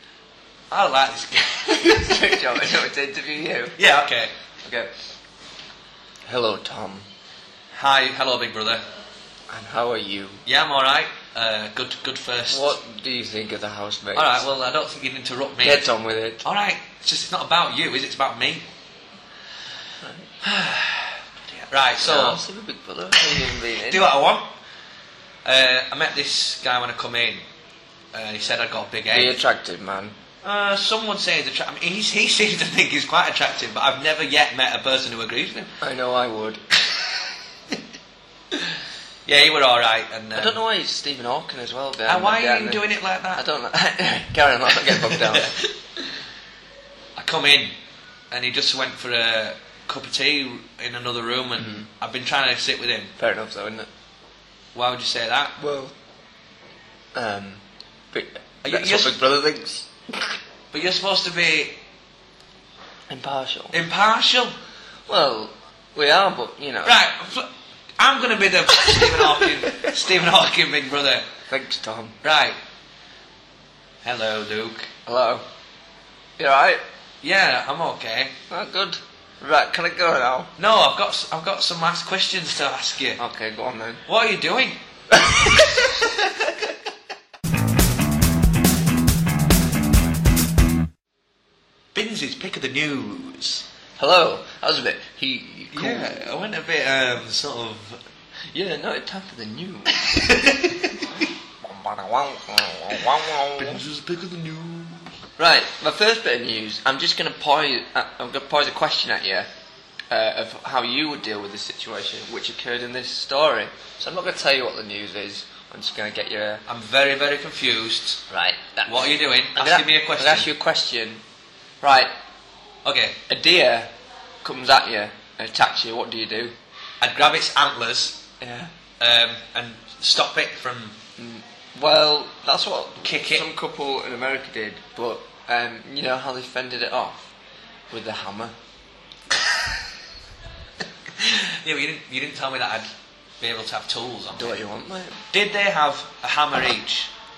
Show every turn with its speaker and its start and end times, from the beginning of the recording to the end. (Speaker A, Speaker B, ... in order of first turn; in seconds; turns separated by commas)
Speaker A: 0.7-2.4, Speaker B: 1.7-3.8, Speaker A: 3.8-4.3, Speaker B: 4.6-4.9, Speaker B: 6.3-7.1, Speaker A: 7.7-8.8, Speaker B: 9.5-10.4, Speaker A: 10.5-12.8, Speaker B: 12.5-14.5, Speaker A: 14.2-15.8, Speaker B: 15.6-16.4, Speaker A: 16.4-18.6, Speaker B: 20.0-21.0, Speaker A: 21.7-22.4, Speaker B: 22.0-24.1, Speaker A: 23.2-24.5, Speaker A: 25.4-27.4, Speaker A: 28.1-29.4, Speaker B: 29.1-30.2, Speaker A: 30.4-35.7, Speaker B: 35.8-36.6, Speaker A: 39.3-40.6, Speaker B: 40.4-42.8, Speaker A: 42.1-43.4, Speaker B: 43.4-45.6, Speaker A: 44.9-45.7, Speaker A: 47.2-47.7, Speaker A: 48.3-53.1, Speaker B: 51.6-51.9, Speaker B: 53.2-53.9, Speaker A: 54.8-55.5, Speaker B: 55.6-55.9, Speaker B: 57.1-57.6, Speaker B: 58.1-60.3, Speaker A: 58.6-59.2, Speaker A: 60.7-61.8, Speaker B: 63.1-63.8, Speaker A: 63.7-64.5, Speaker B: 65.1-67.0, Speaker A: 66.8-71.3, Speaker B: 68.7-69.9, Speaker B: 71.5-72.2, Speaker A: 72.2-72.6, Speaker A: 74.0-74.9, Speaker B: 75.1-75.5, Speaker B: 76.4-76.8, Speaker A: 77.2-78.3, Speaker B: 78.5-80.5, Speaker A: 80.6-83.2, Speaker B: 83.2-84.0, Speaker A: 84.1-84.8, Speaker B: 85.1-86.0, Speaker A: 91.9-93.7, Speaker B: 94.0-96.2, Speaker A: 95.7-98.0, Speaker B: 98.5-100.4, Speaker A: 100.1-101.1, Speaker B: 101.6-103.8, Speaker A: 103.6-105.0, Speaker B: 105.4-109.5, Speaker B: 110.1-116.6, Speaker A: 116.7-118.2, Speaker B: 118.3-121.2, Speaker A: 118.9-120.5, Speaker B: 121.8-122.1, Speaker A: 122.8-123.2, Speaker B: 123.3-123.9, Speaker B: 124.4-126.5, Speaker A: 127.0-128.2, Speaker B: 128.4-128.7, Speaker A: 129.0-130.9, Speaker B: 131.2-137.3, Speaker A: 133.0-133.4, Speaker B: 137.9-138.5, Speaker A: 141.2-142.9, Speaker A: 143.4-144.6, Speaker B: 144.4-145.2, Speaker A: 145.3-147.1